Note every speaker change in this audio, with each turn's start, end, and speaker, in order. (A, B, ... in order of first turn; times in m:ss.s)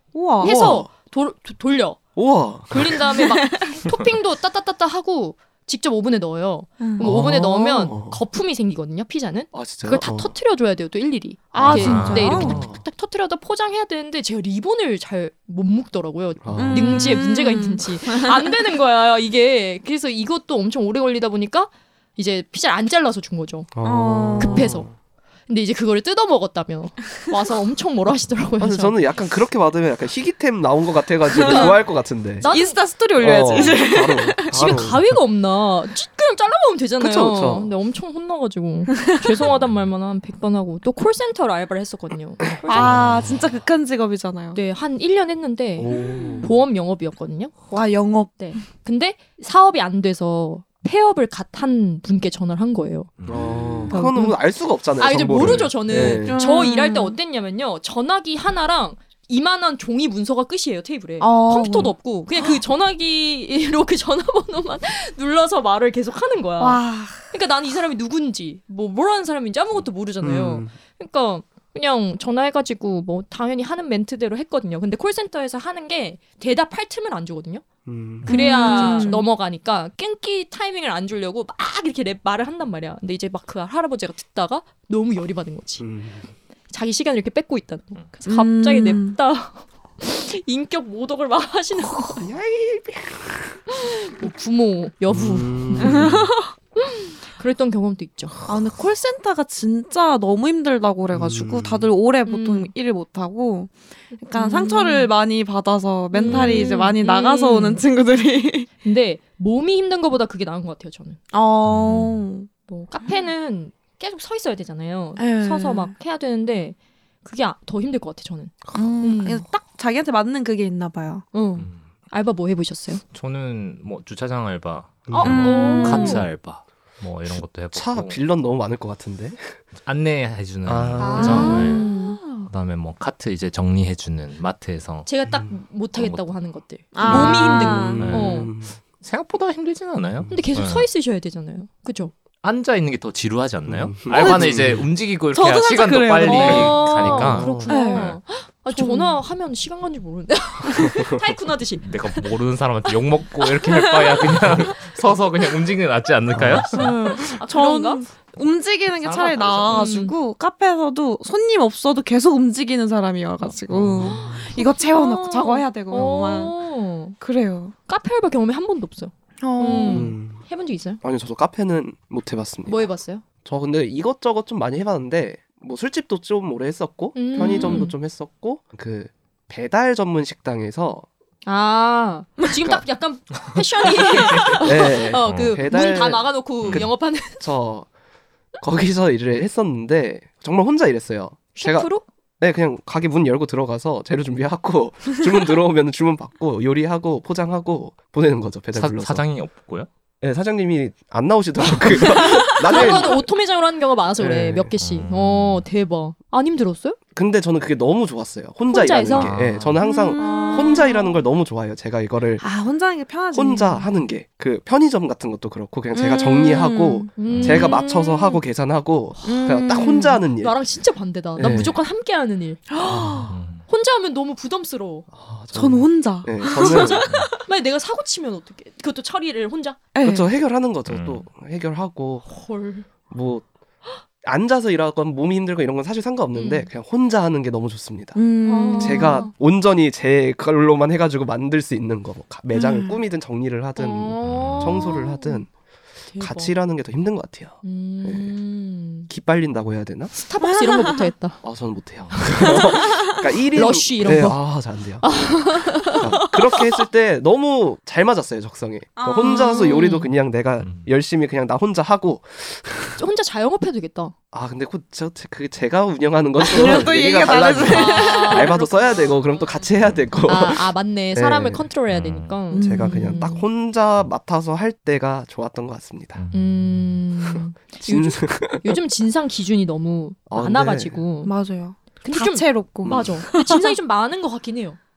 0:00.1-0:00.6 A
0:00.4-0:02.0 B
0:00.4-0:00.9 C
0:02.2-0:03.0 C
0:02.7-0:23.7 B
0:03.1-0:03.8 A
0:06.8-0:07.1 A
0:07.0-0:08.2 C
0:09.5-0:10.3 C
0:11.5-0:12.8 C
0:11.6-0:12.6 D
0:11.6-0:12.6 A
0:16.4-0:17.1 C
0:16.5-0:18.3 A
0:23.7-0:24.9 C
0:23.8-0:24.8 A
0:24.4-0:24.9 B
0:25.5-0:29.0 B
0:28.6-0:32.5 C
0:31.3-0:31.7 A
0:31.4-0:31.8 B
0:32.4-0:33.8 B
0:32.4-0:34.8 A
0:33.2-0:35.0 C
0:34.5-0:43.0 B
0:37.0-0:37.7 C
0:39.5-0:39.9 D
0:42.6-0:42.9 C
0:42.6-0:44.6 A
0:42.7-0:43.5 D
0:44.5-0:47.5 B
0:45.8-0:46.6 C
0:45.9-0:46.5 A
0:47.7-0:48.4 A
0:48.4-0:53.1 B
0:53.2-0:53.5 D
0:53.2-0:56.4 C
0:53.9-0:54.3 A
0:53.9-0:54.3 B
0:55.0-1:17.6 B
0:55.4-0:55.7 D
0:55.9-0:57.2 A
1:01.2-1:02.6 A
1:06.6-1:07.3 A
1:10.2-1:10.7 C
1:17.8-1:18.3 C
1:18.2-1:19.2 D
1:18.2-1:25.8 B
1:18.2-1:19.2 A
1:25.8-1:26.2 C
1:26.7-1:32.3 B
1:28.2-1:29.2 A
1:32.2-1:33.6 C
1:33.7-1:36.1 B
1:35.1-1:36.3 C
1:35.8-1:36.5 A
1:36.8-1:38.4 B
1:38.4-1:48.7 A
1:41.1-1:41.9 C
1:42.2-1:42.7 B
1:44.2-1:45.1 B
1:46.1-1:47.8 B
1:46.3-1:46.6 D
1:48.8-1:51.2 B
1:51.3-1:52.5 A
1:51.6-1:52.2 D
1:52.7-1:59.4 B
1:55.2-1:55.9 A
1:58.7-2:01.2 A
2:01.3-2:03.0 B
2:01.6-2:01.8 D
2:03.1-2:08.2 D
2:05.1-2:05.8 C
2:05.1-2:06.3 B
2:05.2-2:06.2 A
2:07.3-2:09.6 C
2:09.8-2:15.1 D
2:10.6-2:11.7 C
2:11.0-2:12.2 A
2:11.1-2:12.4 B
2:15.0-2:18.5 B
2:16.0-2:20.9 D
2:16.9-2:18.1 A
2:18.0-2:18.8 C
2:20.3-2:22.1 B
2:22.4-2:28.1 D
2:23.6-2:24.9 C
2:24.2-2:24.4 A
2:25.3-2:26.8 A
2:26.2-2:32.2 B
2:26.4-2:27.7 C
2:27.7-2:28.2 A
2:28.7-2:29.2 A
2:31.8-2:36.9 D
2:33.6-2:34.9 A
2:36.4-2:36.7 C
2:36.7-2:46.6 A
2:36.8-2:38.0 B
2:39.0-2:39.9 D
2:39.7-2:40.1 B
2:43.7-2:44.5 C
2:44.1-2:47.2 B
2:47.2-2:47.7 A
2:47.9-2:51.0 B
2:49.4-2:50.1 A
2:49.7-2:50.4 C
2:51.0-2:52.9 C
2:52.6-2:53.2 B
2:53.4-3:01.0 C
2:57.1-2:57.9 B
2:57.4-2:57.8 A
3:01.4-3:07.4 B
3:04.4-3:04.6 D
3:04.6-3:07.9 C
3:05.2-3:05.6 D
3:06.6-3:06.9 D
3:08.6-3:19.2 C
3:11.6-3:12.0 B
3:18.7-3:19.9 D
3:20.2-3:23.2 C
3:21.9-3:27.0 B
3:22.6-3:23.0 A
3:24.2-3:24.7 C
3:24.8-3:25.6 D
3:27.1-3:32.4 C
3:28.7-3:29.5 B
3:29.1-3:29.8 D
3:29.8-3:31.0 A
3:30.2-3:31.0 B
3:32.4-3:33.9 A
3:33.3-3:40.5 C
3:35.9-3:37.8 A
3:37.2-3:38.4 B
3:37.3-3:37.7 D
3:39.2-3:40.2 A
3:40.4-3:42.8 B
3:41.4-3:41.8 C
3:42.7-3:43.3 A
3:42.8-3:43.3 C
3:43.3-3:43.6 D
3:43.7-3:45.1 B
3:45.1-3:47.1 C
3:45.5-3:47.2 A
3:46.4-3:49.8 B
3:49.9-3:50.3 A
3:50.0-3:52.3 C
3:50.9-3:51.2 D
3:52.3-3:52.9 B
3:53.1-3:53.5 C
3:54.2-3:58.2 C
3:56.3-3:56.7 B
3:58.1-3:59.3 A
3:58.4-3:59.3 B
3:58.8-4:05.5 C
4:02.5-4:03.0 A
4:03.8-4:05.4 B
4:04.2-4:04.9 D
4:06.1-4:06.5 B
4:06.2-4:08.3 C
4:07.6-4:09.1 B
4:09.1-4:10.1 C
4:10.1-4:11.4 B
4:10.4-4:11.0 A
4:11.4-4:23.0 C
4:12.1-4:12.9 B
4:13.5-4:16.0 B
4:19.0-4:20.0 A
4:19.3-4:20.0 B
4:20.6-4:20.9 D
4:23.0-4:24.1 B
4:24.3-4:31.6 C
4:26.4-4:28.7 A
4:26.6-4:26.9 B
4:27.6-4:29.1 B
4:30.2-4:33.4 B
4:31.9-4:32.4 D
4:32.5-4:33.2 A
4:32.6-4:36.2 C
4:36.2-4:37.0 D
4:36.3-4:41.3 B
4:37.8-4:38.8 C
4:40.3-4:41.0 C
4:41.2-4:43.7 A
4:42.0-4:44.8 B
4:42.8-4:43.2 C